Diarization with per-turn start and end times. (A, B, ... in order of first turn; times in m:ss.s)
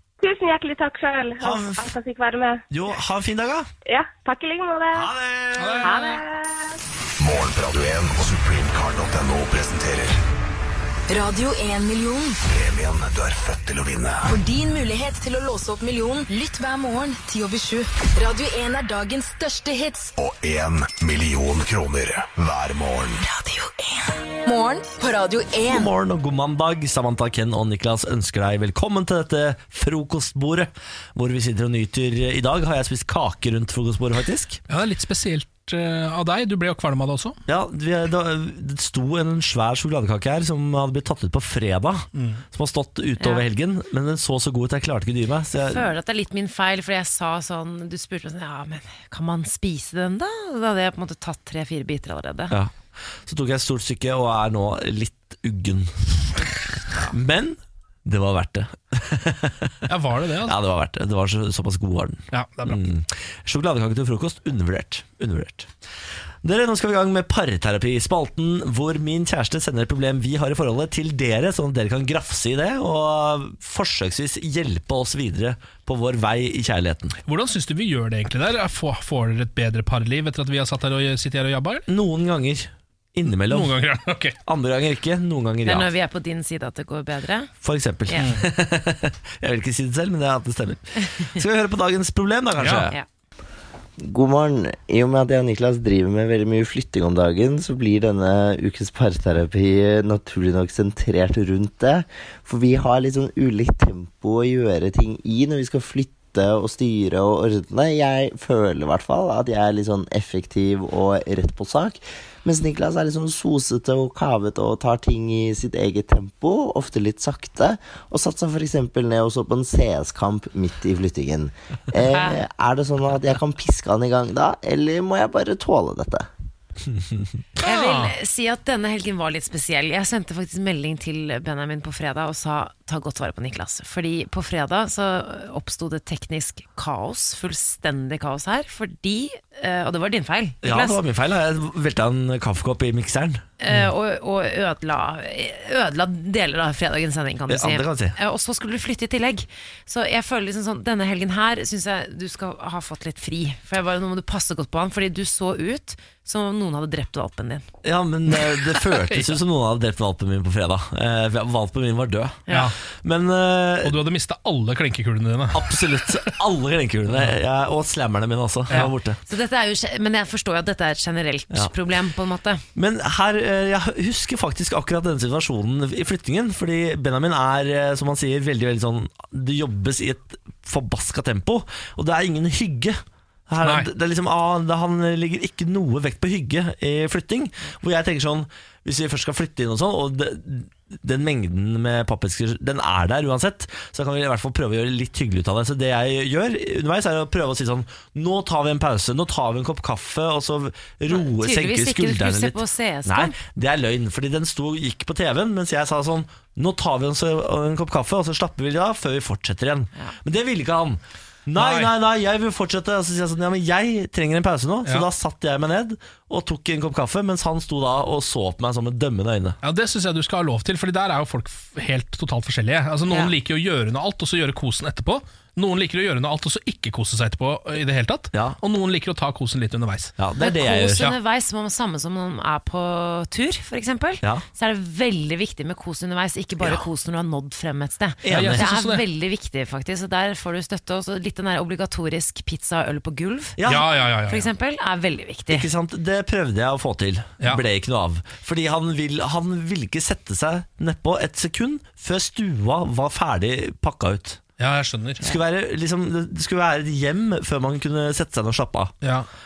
0:00.2-0:02.6 A
0:01.4-0:01.9 B
0:02.7-0:03.7 B
0:03.9-0:05.1 A
0:04.9-0:06.0 B
0:05.6-0:06.2 C
0:05.8-0:06.8 A
0:07.2-0:10.2 D
0:11.1-0:12.4 E
0:12.5-0:14.4 D
0:14.3-0:20.1 E
0:20.2-0:23.2 D
0:23.2-0:25.9 E
0:25.7-0:34.6 B
0:34.7-0:37.4 C
0:37.5-0:45.9 B
0:42.2-0:42.4 C
0:43.2-0:43.4 F
0:45.7-0:52.6 F
0:52.5-0:56.5 B
0:57.1-0:59.8 B
0:59.9-1:00.6 C
1:00.4-1:05.7 B
1:02.3-1:02.8 C
1:06.4-1:17.2 B
1:17.2-1:21.8 C
1:21.9-1:23.8 B
1:23.5-1:24.4 C
1:24.4-1:25.9 B
1:25.7-1:27.5 F
1:27.6-1:33.0 B
1:28.2-1:28.4 C
1:32.6-1:32.9 C
1:34.0-2:06.3 G
2:02.1-2:02.4 F
2:06.9-2:07.3 B
2:07.6-2:08.2 C
2:07.6-2:21.0 F
2:20.6-2:23.4 B
2:23.6-2:37.7 F
2:27.5-2:28.2 B
2:37.8-2:42.4 B
2:42.5-2:42.7 F
2:42.5-2:42.8 C
2:43.0-2:44.0 B
2:43.8-2:46.3 C
2:45.5-2:49.2 B
2:48.7-2:52.6 F
2:52.8-3:39.6 B
3:03.6-3:03.9 C
3:21.1-3:23.4 F
3:31.6-3:31.9 C
3:39.6-3:50.1 C
3:48.3-3:48.6 B
3:50.2-3:51.1 B
3:50.4-4:03.6 F
3:58.2-3:58.7 B
3:58.3-3:59.0 C
4:03.6-4:03.9 B
4:03.7-4:04.5 C
4:04.3-4:05.7 F
4:05.5-4:14.4 B
4:14.6-4:15.3 C
4:15.2-4:18.9 B
4:19.0-4:19.3 C